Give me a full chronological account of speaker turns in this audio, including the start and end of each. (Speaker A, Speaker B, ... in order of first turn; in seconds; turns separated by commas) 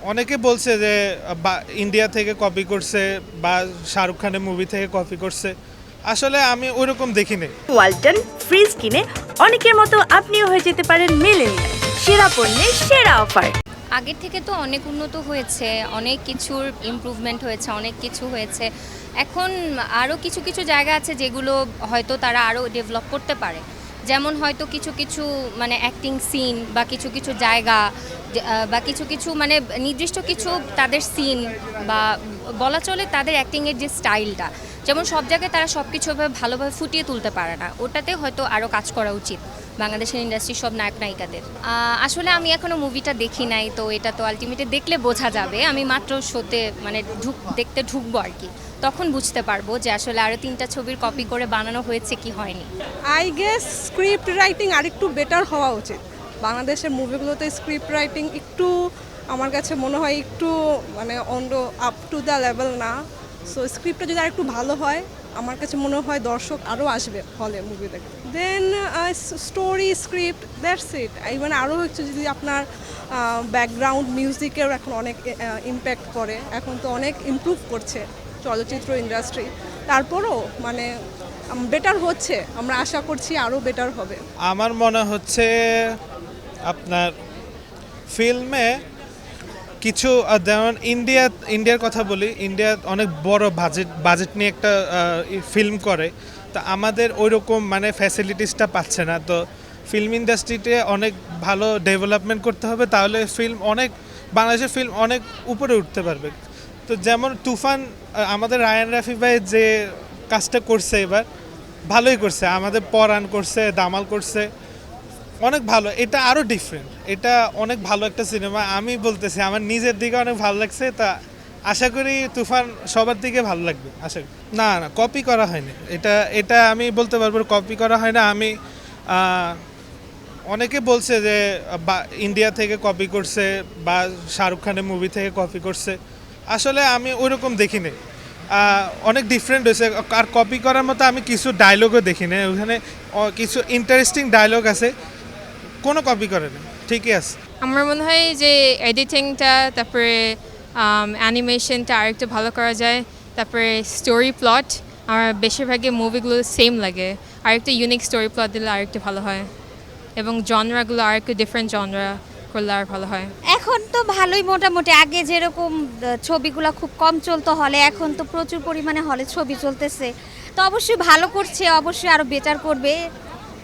Speaker A: 0.1-5.5, Speaker A: 6.1-7.5, Speaker B: 7.7-13.5, Speaker C: 14.0-18.7, Speaker C: 19.2-27.8, Speaker C: 28.4-32.0, Speaker C: 32.6-52.7, Speaker D: 53.1-58.7, Speaker D: 59.3-62.9, Speaker D: 63.5-80.9, Speaker D: 81.5-84.2, Speaker A: 84.5-86.0, Speaker A: 86.7-87.1, Speaker A: 88.1-88.7, Speaker A: 89.8-106.3, Speaker A: 106.9-109.7, Speaker A: 110.3-111.2, Speaker A: 111.9-114.5, Speaker A: 115.4-121.1, Speaker A: 121.7-128.5, Speaker A: 129.1-129.6, Speaker A: 130.5-136.0, Speaker A: 136.5-137.9, Speaker A: 138.5-144.9, Speaker A: 145.8-147.3, Speaker E: 147.6-159.5, Speaker E: 160.2-163.3, Speaker F: 163.5-165.7, Speaker F: 166.2-172.9